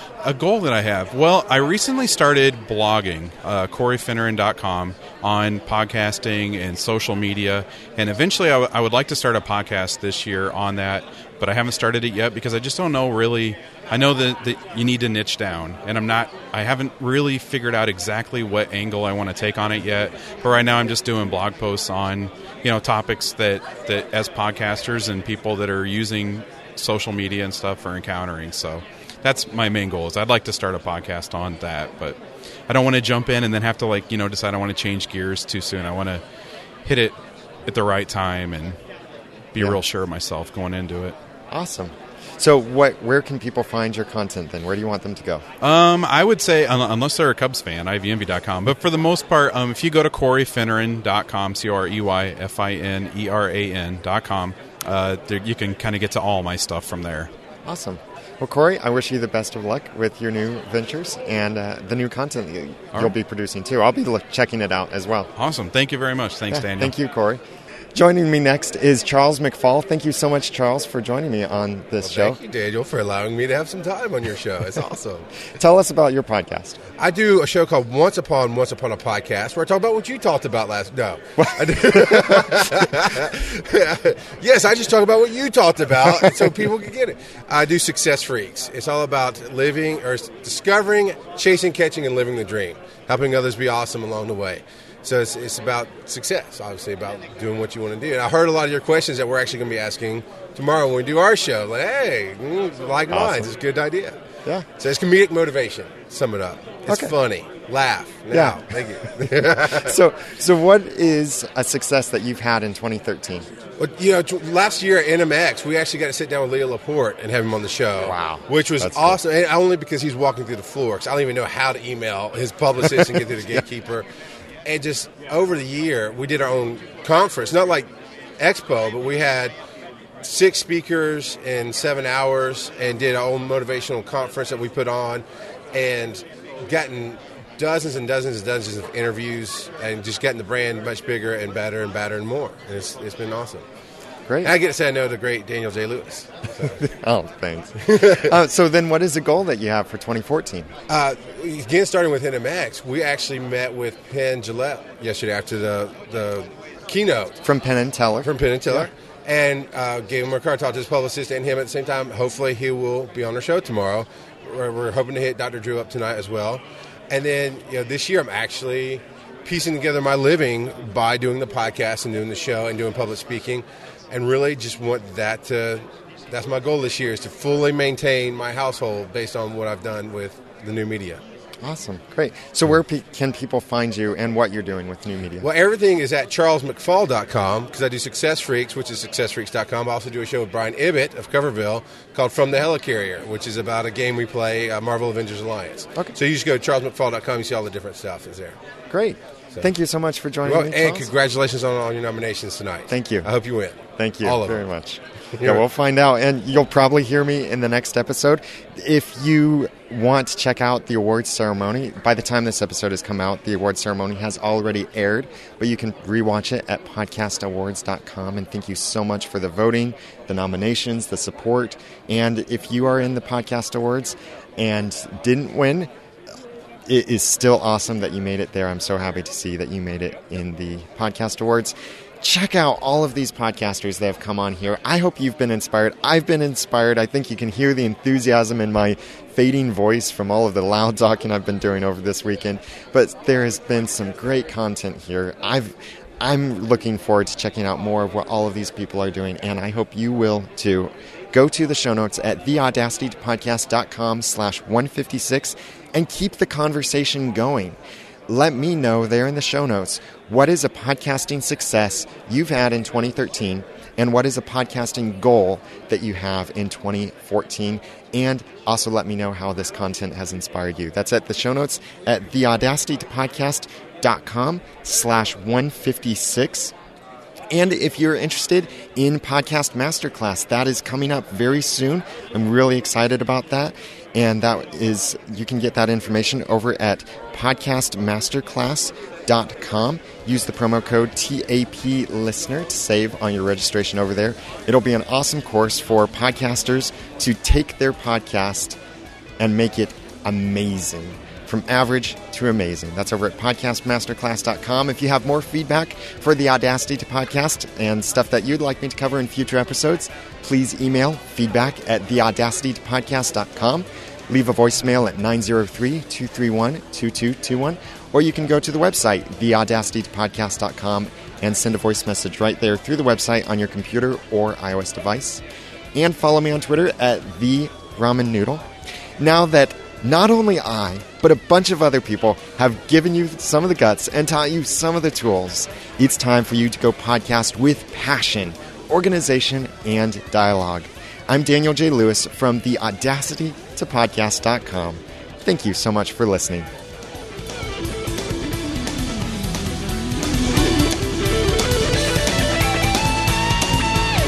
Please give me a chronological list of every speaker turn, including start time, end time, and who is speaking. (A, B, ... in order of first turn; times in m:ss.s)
0:00.2-0:32.2 A
0:32.7-0:36.2 A
0:36.8-0:38.8 A
0:39.5-0:41.2 A
0:41.5-0:45.4 B
0:45.6-0:57.3 A
0:57.7-1:05.3 B
1:05.4-1:06.9 A
1:06.5-1:07.4 B
1:08.0-1:12.4 B
1:12.0-1:15.3 C
1:15.6-1:16.8 B
1:17.0-1:44.2 C
1:21.8-1:22.4 B
1:43.1-1:43.5 B
1:44.8-1:50.0 C
1:48.3-1:48.6 B
1:49.7-1:53.5 B
1:53.8-2:04.1 C
1:58.0-1:59.2 B
2:04.6-2:07.9 C
2:08.4-2:09.6 C
2:10.2-2:23.6 C
2:24.4-2:26.8 C
2:26.9-2:30.7 B
2:28.0-2:28.2 C
2:30.9-2:37.4 C
2:37.4-2:38.8 B
2:38.2-3:01.2 C
3:01.6-3:05.5 B
3:05.4-3:18.6 C
3:18.9-3:21.1 B
3:20.4-3:24.7 C
3:22.9-3:23.3 B
3:24.0-3:45.9 B
3:46.9-4:36.7 B
4:37.5-4:58.8 B
4:59.4-5:25.4 B
5:26.0-5:28.6 B
5:29.2-5:46.7 B